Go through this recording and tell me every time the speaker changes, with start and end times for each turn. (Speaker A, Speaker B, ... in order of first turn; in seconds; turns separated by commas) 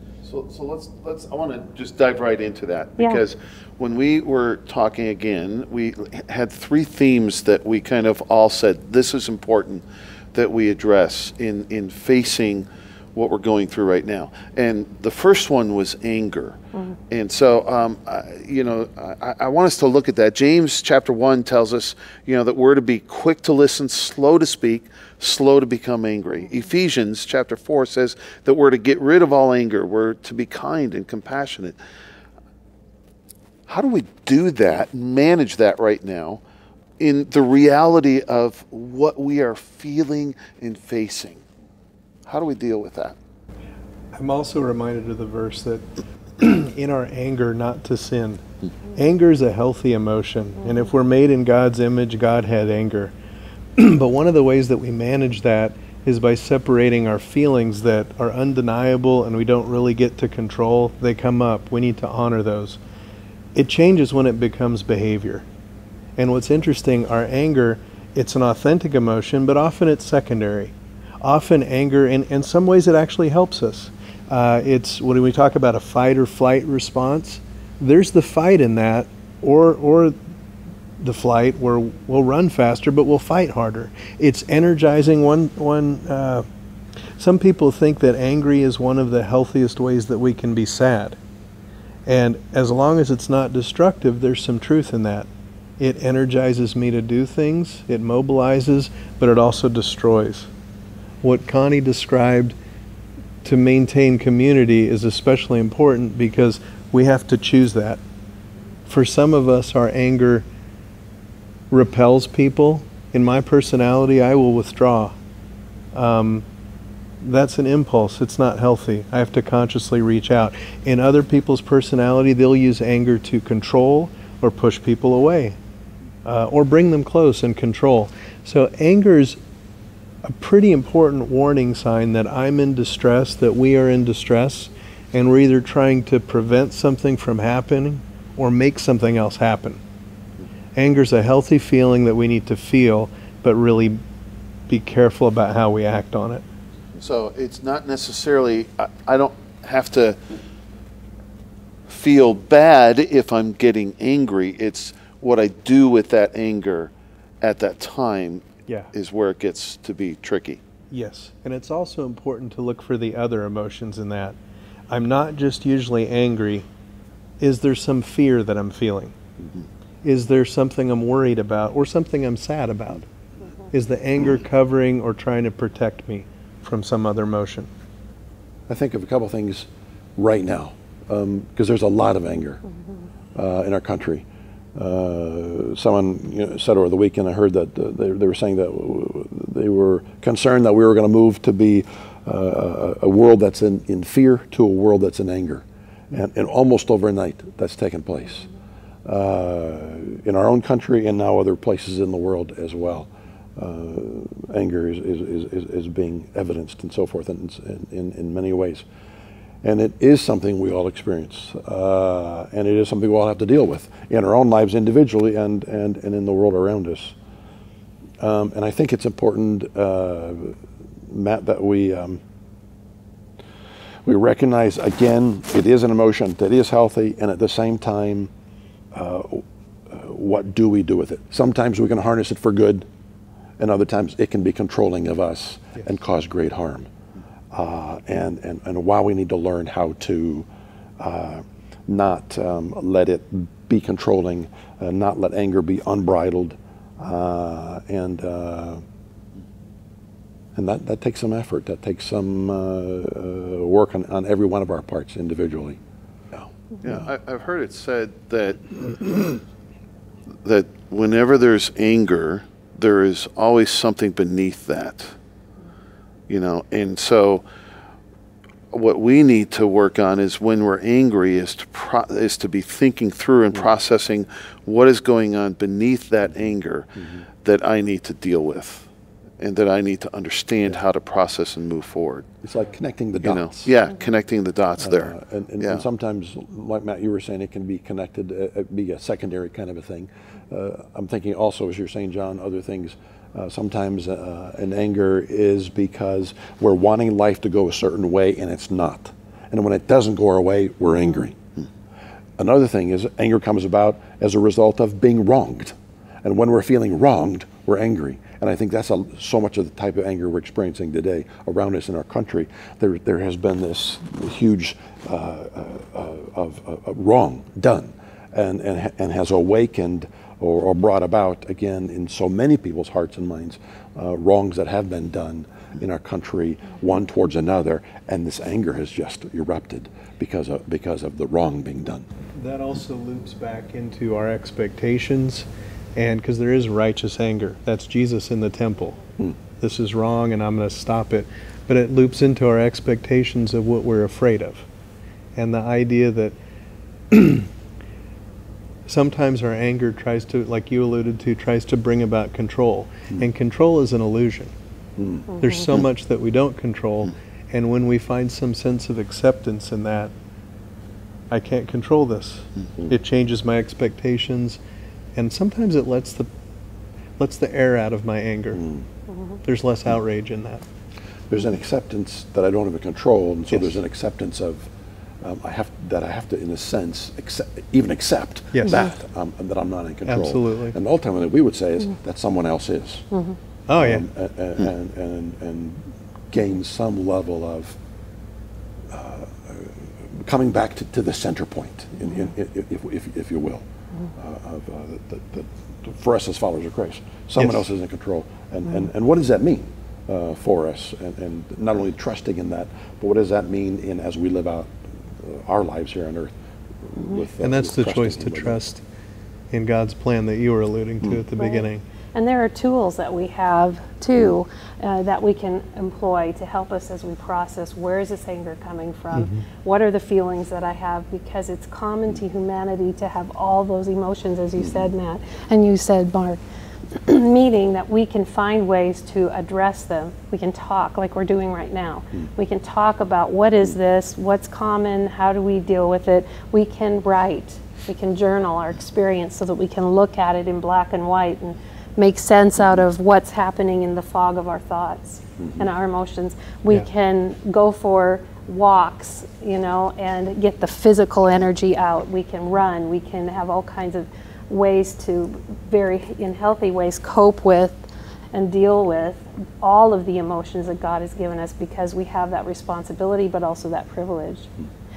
Speaker A: 0.2-9.8, Speaker A: 10.3-16.6, Speaker A: 17.1-31.8, Speaker A: 33.7-36.4, Speaker A: 37.0-41.4, Speaker A: 42.3-43.1, Speaker B: 44.1-45.9, Speaker B: 46.4-48.4, Speaker B: 49.0-53.1, Speaker B: 53.8-62.8, Speaker B: 63.5-65.4, Speaker B: 66.2-80.2, Speaker B: 81.0-86.5, Speaker B: 87.2-91.2, Speaker B: 92.0-95.3, Speaker B: 95.8-100.5, Speaker B: 101.2-102.5, Speaker B: 103.4-108.0, Speaker B: 108.9-110.4, Speaker B: 111.7-115.1, Speaker B: 115.9-116.4, Speaker B: 117.2-125.5, Speaker B: 126.2-129.4, Speaker B: 130.2-139.8, Speaker B: 140.8-144.0, Speaker B: 144.7-146.4, Speaker A: 147.0-150.2, Speaker A: 151.9-160.6, Speaker B: 160.9-164.3, Speaker B: 164.9-166.7, Speaker B: 167.4-169.1, Speaker B: 170.0-173.0, Speaker B: 173.7-177.7, Speaker C: 178.7-182.6, Speaker C: 183.3-184.2, Speaker C: 184.7-198.5, Speaker C: 199.0-208.8, Speaker C: 209.6-217.1, Speaker C: 218.2-220.6, Speaker C: 221.1-222.2, Speaker C: 224.0-228.3, Speaker C: 228.9-232.8, Speaker C: 233.6-236.9, Speaker C: 237.5-240.5, Speaker C: 241.0-248.8, Speaker C: 250.5-255.8, Speaker A: 256.8-259.4, Speaker A: 260.4-265.1, Speaker A: 266.3-267.4, Speaker A: 268.7-276.9, Speaker A: 277.4-278.9, Speaker A: 279.4-282.3, Speaker C: 282.4-283.8, Speaker A: 283.2-285.8, Speaker C: 284.8-301.4, Speaker C: 302.4-332.1, Speaker B: 332.4-339.0, Speaker B: 339.6-344.6, Speaker B: 345.4-346.3, Speaker B: 347.1-347.5, Speaker B: 348.9-354.5, Speaker C: 355.0-355.3, Speaker B: 355.4-360.1, Speaker B: 361.3-364.6, Speaker B: 365.1-366.3, Speaker B: 367.2-368.6, Speaker B: 369.4-370.6, Speaker C: 371.3-374.7, Speaker C: 375.2-383.1, Speaker B: 378.5-378.8, Speaker B: 380.1-380.8, Speaker B: 383.7-384.0, Speaker C: 383.7-387.8, Speaker C: 388.9-393.6, Speaker C: 394.1-408.6, Speaker B: 397.4-397.6, Speaker B: 407.4-408.8, Speaker B: 409.5-411.8, Speaker D: 411.4-426.4, Speaker B: 419.1-419.4, Speaker C: 424.6-424.9, Speaker D: 426.9-464.5, Speaker C: 445.4-445.7